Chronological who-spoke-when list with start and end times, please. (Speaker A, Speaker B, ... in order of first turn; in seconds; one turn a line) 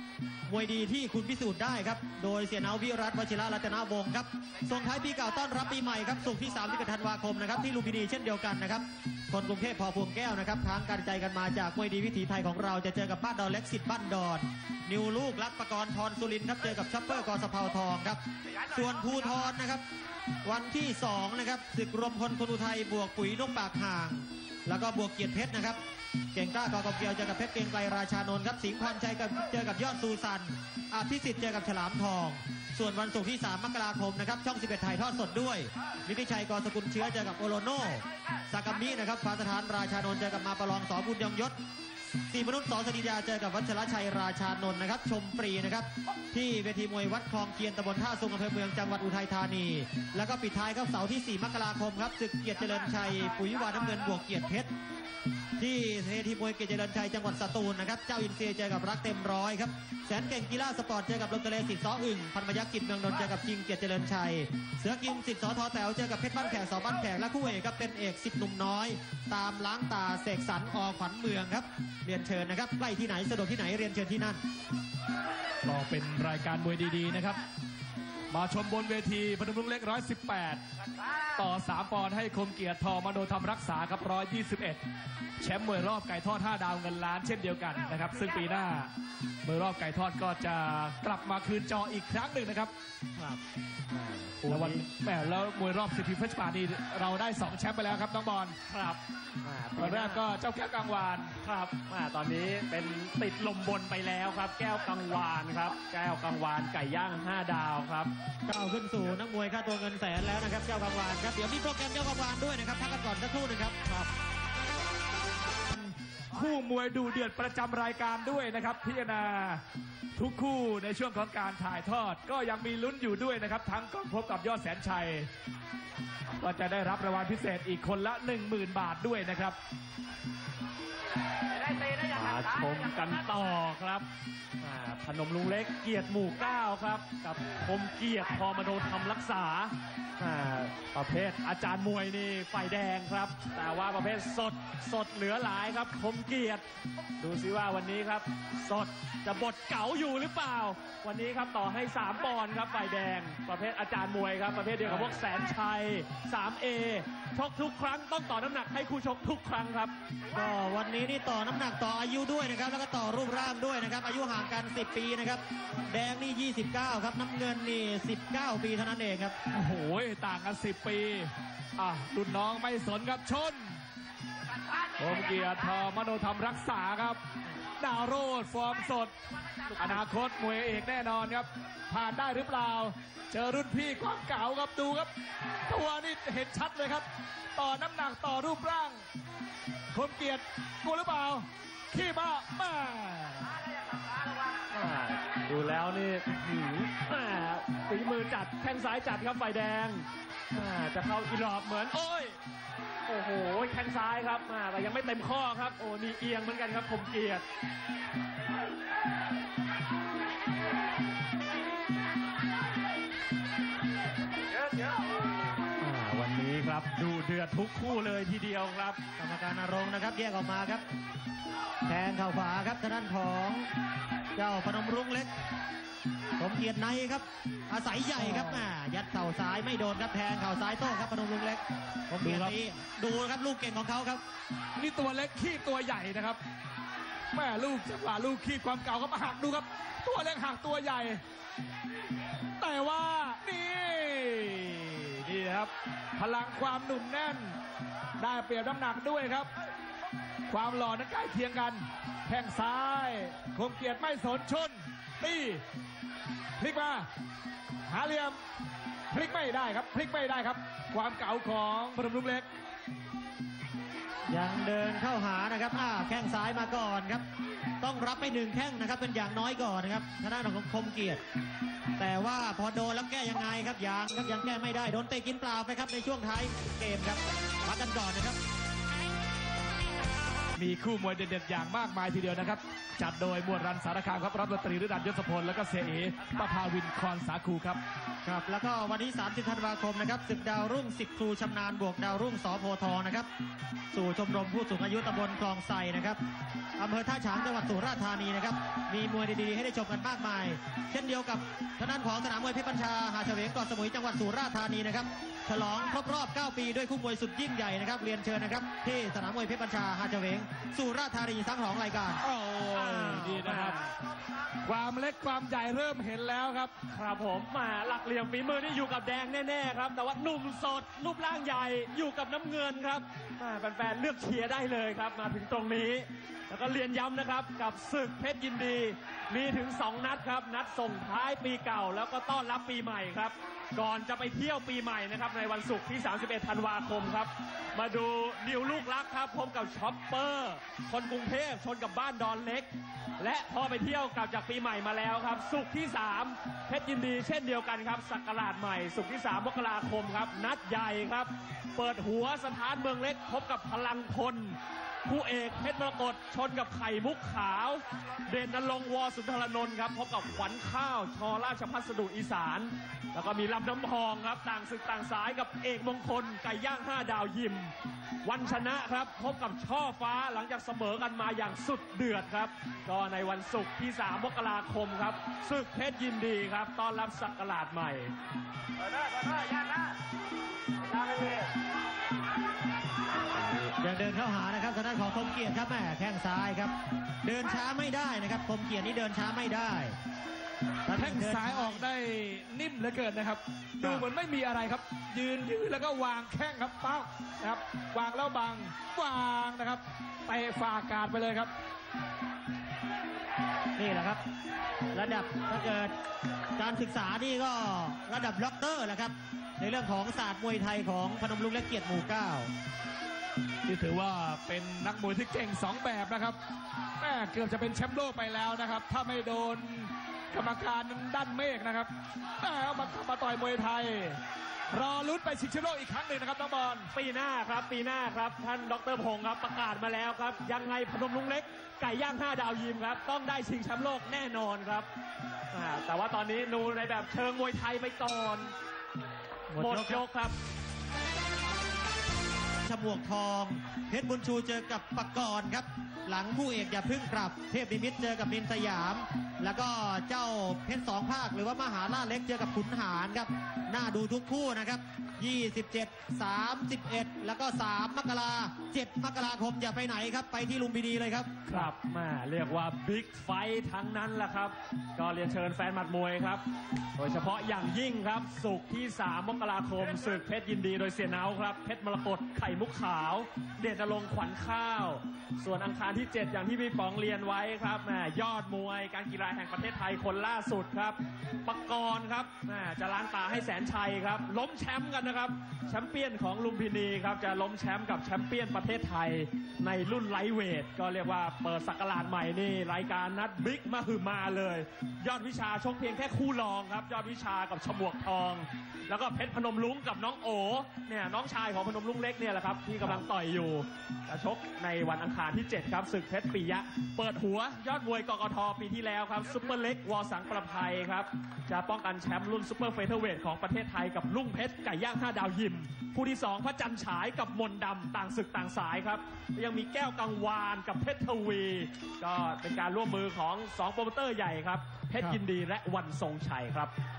Speaker A: 0.5-19.8
Speaker A: 20.4-25.8
Speaker A: 26.3-41.6
Speaker A: 42.3-54.7
Speaker A: 55.6-74.4
Speaker B: 75.6-77.4
Speaker B: 78.3-80.6
Speaker B: 81.3-84.8
Speaker B: 85.4-88.9
Speaker B: 89.4-92.7
Speaker C: 93.2-94.8
Speaker B: 94.5-98.5
Speaker C: 98.7-100.2
Speaker B: 99.8-101.3
Speaker C: 101.4-108.1
Speaker A: 108.5-113.9
Speaker B: 115.7-119.6
Speaker B: 120.1-125.3
Speaker B: 126.4-129.6
Speaker C: 131.8-134.1
Speaker C: 134.6-146.6
Speaker C: 147.2-159.9
Speaker A: 154.8-155.2
Speaker A: 160.3-169.4
Speaker B: 169.5-173.8
Speaker B: 175.0-177.2
Speaker B: 177.8-179.1
Speaker B: 179.7-185.1
Speaker B: 185.7-187.0
Speaker B: 187.6-189.0
Speaker B: 189.9-193.5
Speaker C: 194.7-202.3
Speaker C: 203.1-207.4
Speaker C: 215.8-219.0
Speaker A: 219.2-220.8
Speaker A: 221.8-223.7
Speaker A: 224.3-225.3
Speaker A: 226.4-234.2
Speaker B: 228.2-228.7
Speaker B: 232.2-232.6
Speaker B: 234.8-236.4
Speaker B: 237.3-241.2
Speaker B: 242.6-247.6
Speaker B: 248.2-249.5
Speaker B: 250.5-255.6
Speaker B: 256.6-257.1
Speaker B: 257.9-258.4
Speaker B: 259.1-262.5
Speaker A: 264.3-267.2
Speaker A: 267.8-271.2
Speaker A: 272.0-278.4
Speaker B: 280.6-287.8
Speaker A: 288.2-293.3
Speaker A: 293.9-296.2
Speaker A: 296.8-312.2
Speaker B: 312.2-313.8
Speaker C: 312.7-313.9
Speaker B: 314.6-316.7
Speaker C: 316.9-378.1
Speaker C: 381.1-381.4
Speaker A: 383.8-389.9
Speaker A: 390.9-391.8
Speaker B: 390.9-401.5
Speaker A: 403.8-404.2
Speaker A: 404.9-405.9
Speaker A: 406.6-412.5
Speaker B: 413.6-416.4
Speaker B: 417.0-424.2
Speaker B: 424.7-426.9
Speaker C: 426.9-434.9
Speaker C: 435.5-438.5
Speaker A: 439.5-440.0
Speaker C: 439.6-440.4
Speaker A: 442.6-461.3
Speaker C: 461.5-466.4
Speaker C: 466.9-526.7